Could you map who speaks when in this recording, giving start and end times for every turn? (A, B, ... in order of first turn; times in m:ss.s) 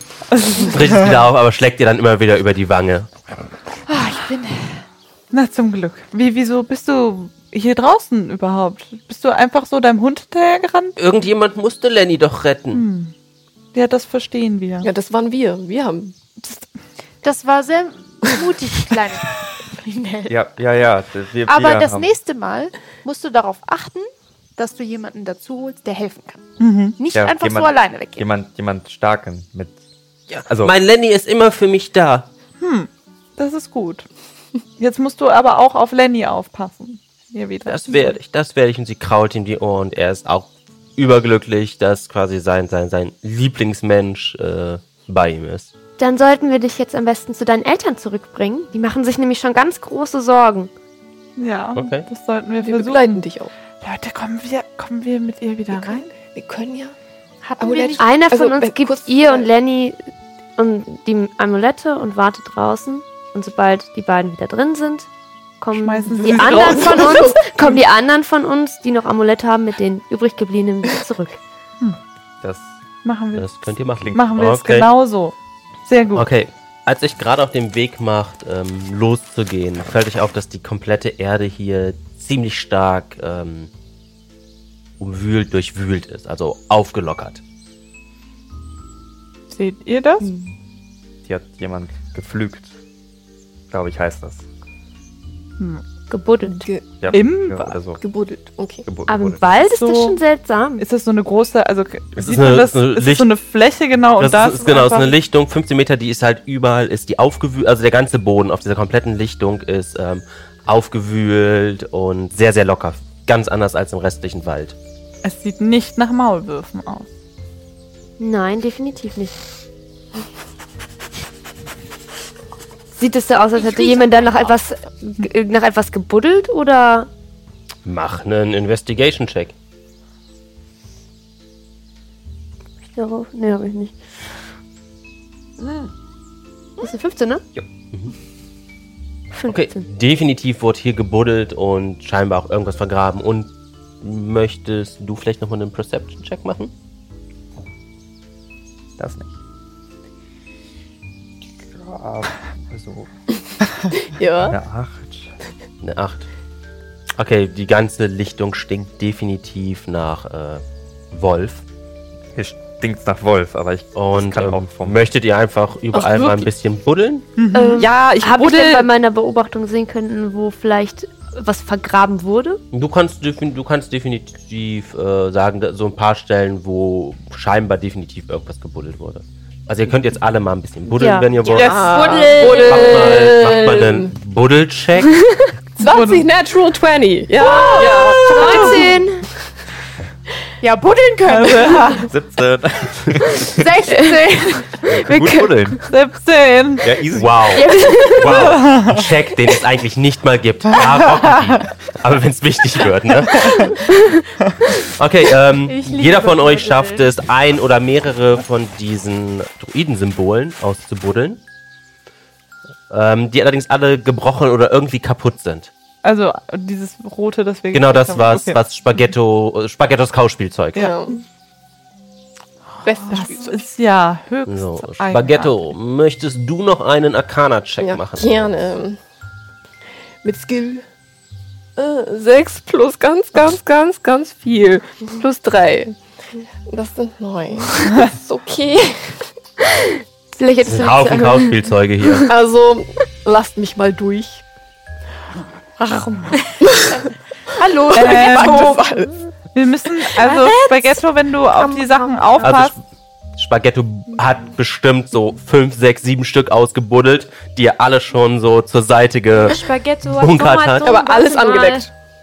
0:00.3-0:01.1 A
0:00.5-0:03.1 B
0:03.9-0:04.2 A
0:04.1-0:04.6 C
0:05.3-0:11.0 A
0:11.0-0:12.8 B
0:12.7-0:13.1 A
0:13.7-0:14.9 A
0:14.8-0:16.6 D
0:17.2-0:20.4 C
0:20.3-0:22.1 E
0:21.5-0:26.4 C
0:26.6-0:27.0 A
0:27.0-0:28.2 C
0:27.1-0:29.8 E
0:30.3-0:32.3 B
0:32.6-0:34.1 A
0:34.8-0:38.2 A
0:37.6-0:45.7 B
0:46.0-0:50.7 F
0:51.4-0:53.2 A
0:51.7-0:52.1 B
0:52.6-0:53.5 D
0:53.8-0:56.1 A
0:55.7-0:56.9 D
0:57.4-0:58.1 C
0:57.6-0:59.5 D
0:58.0-1:00.0 F
1:00.6-1:05.1 F
1:05.6-1:11.4 F
1:05.7-1:07.8 A
1:06.2-1:07.4 D
1:12.4-1:12.8 E
1:13.0-1:13.4 A
1:13.4-1:14.9 B
1:13.9-1:14.2 E
1:14.1-1:16.3 A
1:16.1-1:23.7 B
1:25.0-1:27.4 B
1:29.5-1:30.3 A
1:30.2-1:30.5 F
1:31.2-1:32.8 E
1:33.7-1:34.5 E
1:36.1-1:36.7 F
1:36.4-1:37.3 D
1:37.0-1:38.0 E
1:37.1-1:37.7 A
1:37.9-1:38.9 D
1:38.8-1:39.4 E
1:39.0-1:40.8 F
1:39.7-1:40.2 A
1:40.8-1:45.1 A
1:42.2-1:43.3 B
1:44.2-1:54.8 B
1:55.2-1:57.1 A
1:58.2-1:59.4 F
2:02.9-2:07.1 F
2:03.6-2:04.5 C
2:07.8-2:09.5 B
2:12.9-2:14.4 F
2:16.8-2:17.4 F
2:19.3-2:19.8 F
2:19.5-2:26.7 B
2:29.0-2:29.4 E
2:31.6-2:33.1 E
2:34.0-2:34.6 D
2:34.4-2:35.3 E
2:35.8-2:36.3 B
2:37.2-2:41.6 B
2:42.4-2:45.0 E
2:43.9-2:47.3 B
2:45.9-2:46.5 D
2:47.4-2:47.9 A
2:47.5-2:52.6 F
2:47.8-2:48.9 D
2:52.7-3:05.2 B
3:01.0-3:03.3 F
3:01.4-3:02.0 A
3:01.5-3:04.1 D
3:05.4-3:09.0 D
3:05.8-3:06.3 A
3:07.4-3:09.3 F
3:07.4-3:08.5 C
3:10.6-3:12.1 C
3:11.3-3:12.1 A
3:12.0-3:13.8 E
3:13.4-3:14.8 C
3:13.9-3:15.9 F
3:14.9-3:15.8 E
3:15.9-3:16.9 A
3:16.8-3:18.6 E
3:17.1-3:23.7 B
3:17.5-3:18.4 F
3:18.2-3:19.0 A
3:23.9-3:24.3 F
3:24.9-3:31.4 B
3:25.7-3:27.1 C
3:32.9-3:35.7 B
3:36.0-3:38.6 A
3:37.7-3:40.9 B
3:40.7-3:41.2 D
3:42.8-3:43.6 D
3:43.1-3:45.5 A
3:44.5-3:48.7 B
3:47.8-3:49.0 D
3:50.2-3:50.8 D
3:51.8-3:56.0 D
3:56.7-3:59.3 D
4:00.3-4:01.6 F
4:00.6-4:02.3 B
4:02.3-4:04.4 D
4:06.6-4:07.0 D
4:07.6-4:08.8 C
4:07.8-4:09.1 D
4:07.9-4:08.8 A
4:09.5-4:12.7 A
4:10.2-4:10.8 F
4:11.6-4:12.5 D
4:12.4-4:12.8 B
4:13.4-4:19.6 B
4:19.5-4:21.8 C
4:19.5-4:21.8 F
4:20.1-4:20.9 B
4:20.8-4:21.9 D